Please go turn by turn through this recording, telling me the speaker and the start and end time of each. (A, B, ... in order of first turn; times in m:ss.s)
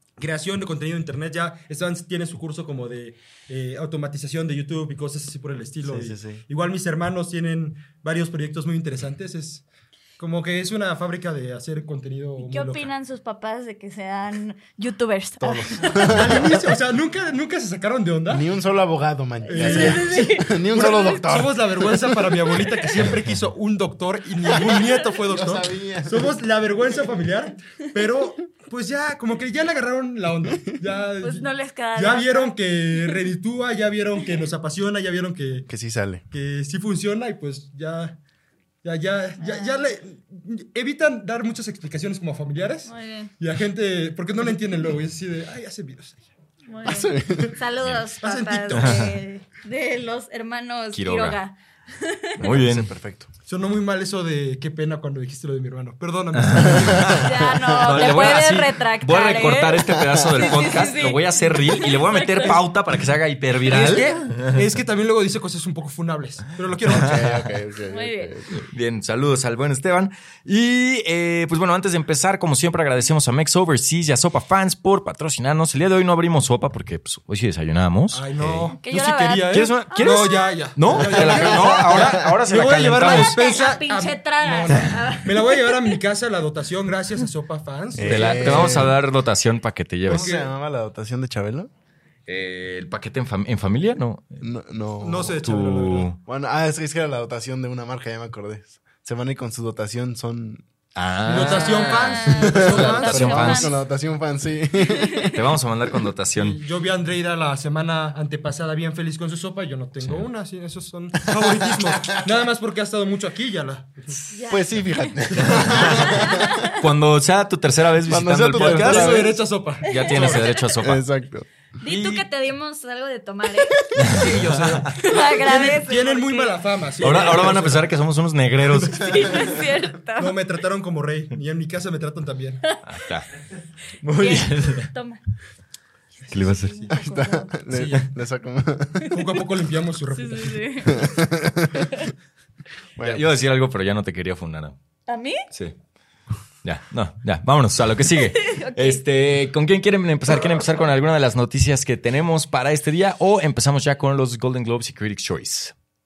0:00.2-0:09.6 A
0:05.8-0:06.4 B
0:10.2-0:12.9 A
0:12.4-0:16.4 C
0:15.4-0:16.6 B
0:16.0-0:18.4 A
0:18.3-0:22.6 B
0:19.4-0:21.2 C
0:19.5-0:35.7 A
0:24.4-0:26.4 B
0:31.2-0:33.2 C
0:35.7-0:36.2 B
0:36.3-0:38.2 A
0:38.8-0:46.2 A
0:39.4-0:39.8 C
0:42.8-0:43.3 C
0:46.7-0:52.4 C
0:46.8-0:47.6 B
0:48.2-0:49.2 A
0:48.7-0:49.2 D
0:50.9-0:51.4 D
0:52.4-0:53.3 B
0:52.4-0:52.9 D
0:53.4-0:57.3 A
0:56.3-1:04.8 D
0:56.7-0:58.0 B
0:57.1-1:02.6 C
0:59.9-1:00.4 B
1:03.7-1:07.4 A
1:06.8-1:07.5 D
1:06.9-1:08.6 B
1:07.8-1:08.3 C
1:08.5-1:18.6 D
1:18.1-1:28.9 A
1:18.4-1:18.7 B
1:18.8-1:20.6 C
1:19.5-1:23.4 D
1:21.1-1:22.3 B
1:23.0-1:26.0 C
1:27.9-1:29.0 B
1:28.0-1:30.3 D
1:30.0-1:31.7 B
1:30.1-1:30.5 A
1:32.3-1:34.4 D
1:34.4-1:35.5 B
1:35.0-1:36.1 A
1:35.4-1:36.2 D
1:36.2-1:40.6 B
1:40.9-1:43.8 D
1:41.2-1:43.3 A
1:41.3-1:43.8 C
1:42.4-1:45.4 B
1:44.8-1:45.3 C
1:45.3-1:46.6 D
1:46.4-1:54.2 A
1:50.0-1:50.3 D
1:51.7-1:52.0 B
1:54.3-1:55.1 C
1:54.5-1:56.7 B
1:55.3-1:56.2 A
1:55.4-1:55.9 D
1:55.7-1:56.8 C
1:56.7-2:01.0 D
1:58.0-1:59.4 B
1:58.5-2:00.5 A
1:59.9-2:00.7 C
2:00.7-2:01.5 B
2:01.8-2:04.0 C
2:01.9-2:02.2 A
2:04.0-2:04.9 D
2:04.0-2:07.9 A
2:05.0-2:06.6 C
2:07.0-2:09.3 D
2:08.7-2:09.6 A
2:09.0-2:10.4 C
2:10.2-2:12.6 A
2:12.7-2:13.1 C
2:12.8-2:13.3 D
2:14.0-2:14.4 B
2:14.1-2:15.2 C
2:14.2-2:14.9 D
2:16.3-2:16.8 D
2:16.3-2:16.9 A
2:16.3-2:17.5 C
2:16.9-2:19.1 B
2:17.7-2:18.1 A
2:19.1-2:20.7 A
2:20.1-2:21.3 C
2:20.9-2:21.9 B
2:21.8-2:22.1 C
2:23.0-2:23.3 B
2:23.0-2:24.7 D
2:25.1-2:25.4 C
2:25.5-2:25.8 D
2:26.6-2:35.7 D
2:28.2-2:29.0 C